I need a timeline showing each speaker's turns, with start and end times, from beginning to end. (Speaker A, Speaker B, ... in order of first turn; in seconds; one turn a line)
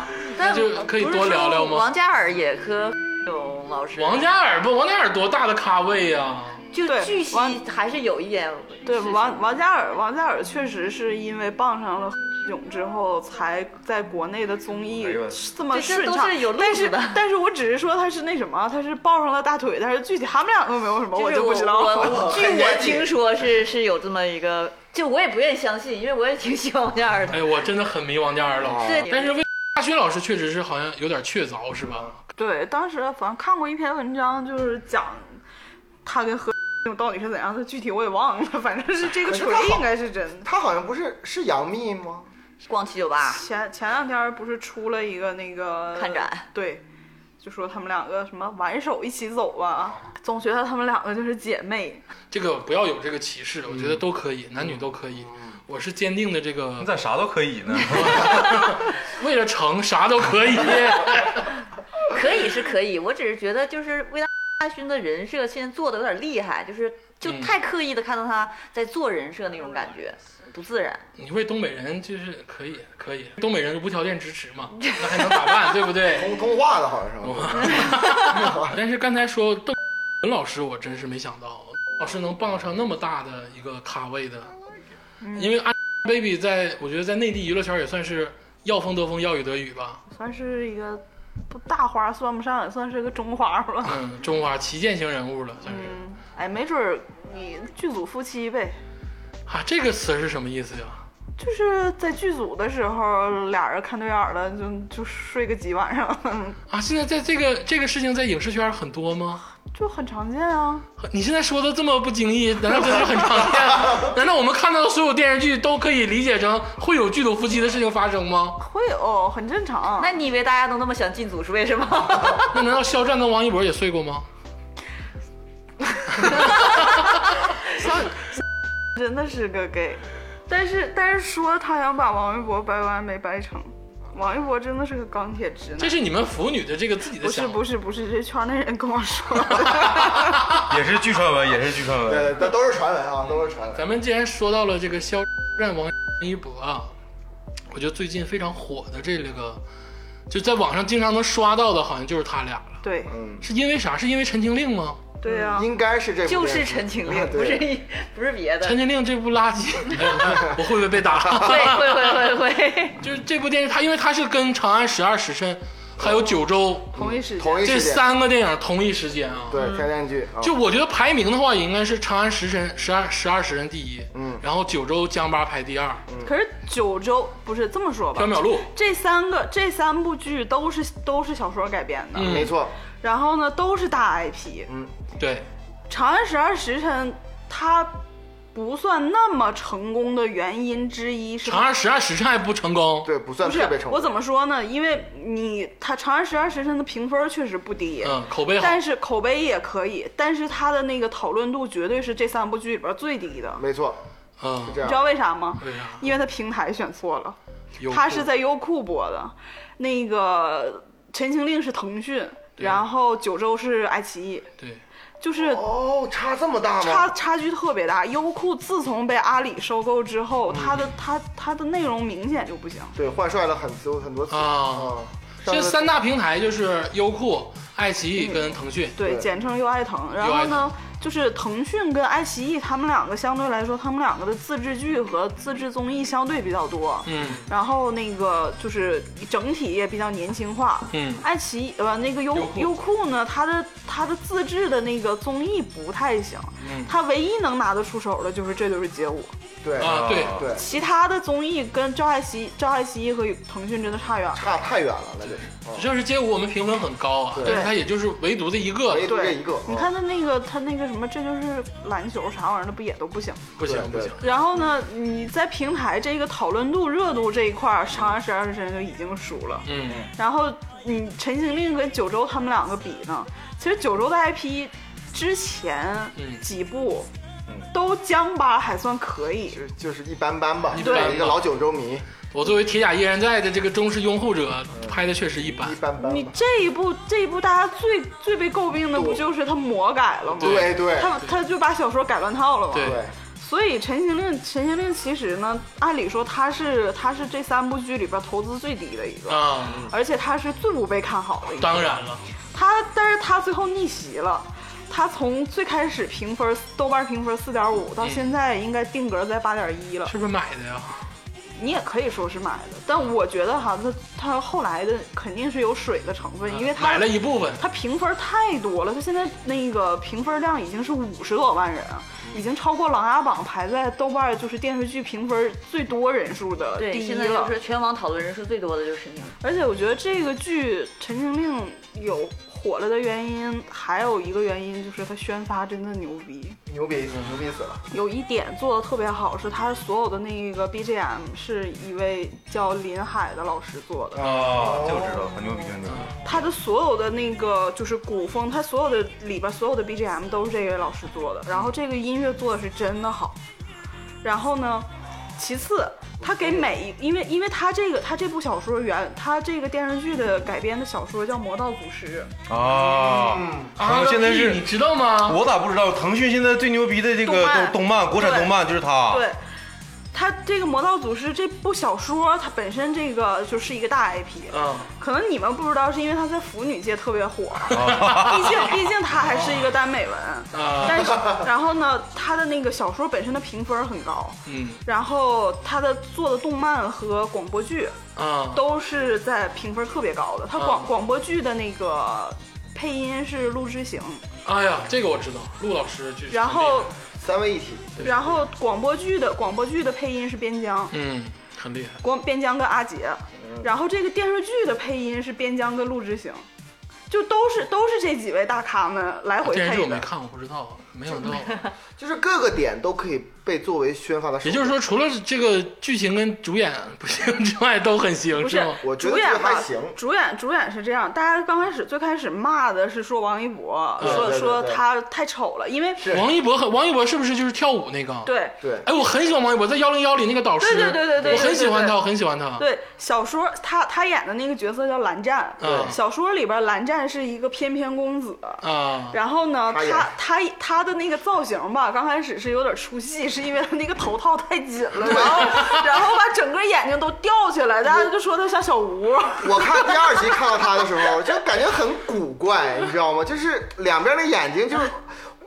Speaker A: 0.3-4.2
Speaker B: 0.4-1.9
Speaker B: 4.0-6.7
Speaker A: 6.7-9.6
Speaker C: 6.8-7.6
Speaker C: 8.8-22.3
Speaker D: 15.0-15.5
Speaker A: 15.7-17.2
Speaker A: 21.1-27.6
Speaker E: 21.9-23.2
Speaker B: 27.3-32.1
Speaker E: 28.6-29.1
Speaker A: 28.7-29.4
Speaker C: 32.4-35.4
Speaker C: 36.0-40.5
Speaker E: 39.2-39.9
Speaker E: 40.4-42.3
Speaker A: 42.6-43.4
Speaker C: 43.3-46.8
Speaker A: 46.0-46.5
Speaker C: 47.4-52.0
Speaker B: 52.3-56.9
Speaker D: 56.8-58.6
Speaker B: 57.8-61.5
Speaker A: 62.1-71.0
Speaker B: 67.2-67.5
Speaker B: 71.2-76.4
Speaker A: 75.0-75.5
Speaker E: 76.1-78.8
Speaker B: 77.2-84.5
Speaker A: 77.8-78.1
Speaker C: 85.2-85.6
Speaker B: 85.3-90.0
Speaker C: 90.1-94.0
Speaker B: 93.8-95.9
Speaker C: 95.7-98.8
Speaker B: 99.5-101.0
Speaker C: 101.4-106.6
Speaker B: 106.7-109.4
Speaker C: 109.6-110.9
Speaker B: 111.0-118.6
Speaker C: 118.6-120.1
Speaker A: 120.0-122.6
Speaker B: 122.5-124.3
Speaker B: 126.2-126.7
Speaker C: 127.7-128.2
Speaker C: 128.9-136.0
Speaker B: 135.8-137.6
Speaker C: 137.2-140.3
Speaker D: 140.6-142.4
Speaker E: 142.1-143.9
Speaker B: 143.8-146.9
Speaker B: 147.7-149.6
Speaker B: 150.3-152.8
Speaker C: 152.8-153.1
Speaker E: 153.1-153.5
Speaker B: 153.4-155.0
Speaker C: 155.2-155.7
Speaker E: 155.5-157.7
Speaker A: 156.2-158.8
Speaker B: 158.6-162.3
Speaker A: 159.9-160.2
Speaker A: 161.4-163.0
Speaker B: 163.0-167.0
Speaker E: 166.9-168.0
Speaker C: 167.0-167.7
Speaker B: 167.6-169.6
Speaker E: 169.5-170.6
Speaker A: 169.6-169.8
Speaker B: 170.4-176.0
Speaker E: 174.1-174.4
Speaker C: 176.2-182.5
Speaker B: 178.2-178.7
Speaker B: 182.2-182.5
Speaker E: 182.2-182.8
Speaker C: 183.0-184.7
Speaker E: 184.7-184.9
Speaker B: 185.2-185.5
Speaker C: 185.9-188.0
Speaker C: 188.5-191.7
Speaker B: 191.4-193.1
Speaker E: 193.0-194.1
Speaker C: 193.4-203.6
Speaker B: 198.0-198.8
Speaker E: 203.6-204.0
Speaker B: 204.4-204.9
Speaker E: 204.6-205.0
Speaker C: 204.8-207.4
Speaker B: 205.6-206.0
Speaker B: 207.8-208.3
Speaker C: 207.9-214.5
Speaker B: 212.6-212.8
Speaker C: 215.2-215.7
Speaker E: 215.4-217.1
Speaker C: 216.8-222.9
Speaker E: 222.9-225.9
Speaker B: 224.3-228.9
Speaker C: 228.2-228.4
Speaker C: 229.0-249.3
Speaker E: 229.0-229.3
Speaker B: 230.2-230.7
Speaker B: 237.1-237.5
Speaker B: 240.9-241.2
Speaker B: 242.3-242.7
Speaker B: 246.6-246.9
Speaker E: 249.6-250.6
Speaker B: 249.8-250.4
Speaker D: 249.8-250.5
Speaker C: 250.5-254.5
Speaker E: 254.3-255.9
Speaker B: 255.3-259.1
Speaker E: 257.3-257.7
Speaker C: 257.4-257.7
Speaker E: 258.9-259.9
Speaker C: 259.1-263.6
Speaker B: 263.6-264.2
Speaker E: 263.6-264.2
Speaker C: 264.2-277.1
Speaker B: 269.7-270.1
Speaker B: 276.2-276.4
Speaker C: 277.7-279.6
Speaker E: 279.5-282.1
Speaker B: 280.8-281.5
Speaker C: 280.8-281.2
Speaker B: 282.3-285.8
Speaker E: 284.7-286.4
Speaker C: 286.0-310.1
Speaker E: 288.9-289.2
Speaker E: 290.4-291.1
Speaker B: 290.4-291.3
Speaker B: 292.7-293.0
Speaker E: 292.8-293.1
Speaker B: 299.3-299.9
Speaker B: 301.6-302.2
Speaker B: 310.1-311.0
Speaker C: 311.6-327.5
Speaker B: 316.5-317.6
Speaker A: 326.8-329.4
Speaker C: 329.4-336.6
Speaker E: 336.7-337.8
Speaker B: 337.1-337.4
Speaker C: 337.9-344.2
Speaker D: 344.2-346.2
Speaker B: 344.2-344.8
Speaker E: 344.6-345.4
Speaker B: 345.9-346.2
Speaker C: 346.2-353.4
Speaker C: 354.2-362.3
Speaker E: 356.2-356.7
Speaker D: 362.5-364.7
Speaker E: 362.7-363.7
Speaker B: 363.8-365.4
Speaker D: 365.2-369.3
Speaker C: 367.2-368.5
Speaker C: 369.1-369.4
Speaker C: 370.1-388.0
Speaker B: 374.5-374.9
Speaker D: 377.7-378.8
Speaker B: 377.8-378.6
Speaker B: 380.5-381.2
Speaker B: 384.5-384.8
Speaker B: 388.2-388.6
Speaker C: 388.5-394.2
Speaker B: 390.6-390.9
Speaker B: 394.4-396.9
Speaker C: 396.3-396.9
Speaker E: 397.2-398.1
Speaker C: 398.0-400.9
Speaker B: 400.9-402.0
Speaker C: 402.0-406.4
Speaker E: 403.4-403.7
Speaker C: 407.1-410.1
Speaker B: 409.4-411.6
Speaker E: 412.0-414.8
Speaker B: 414.4-418.8
Speaker C: 418.4-426.0
Speaker E: 418.8-420.0
Speaker E: 424.0-424.8
Speaker B: 424.0-424.3
Speaker E: 426.0-426.3
Speaker B: 426.1-428.3
Speaker C: 428.2-428.5
Speaker E: 428.6-428.9
Speaker B: 428.8-432.7
Speaker C: 430.6-432.0
Speaker C: 432.6-450.5
Speaker B: 435.6-436.0
Speaker E: 435.6-436.0
Speaker B: 438.6-439.2
Speaker E: 439.7-440.1
Speaker E: 445.0-445.5
Speaker E: 449.4-455.1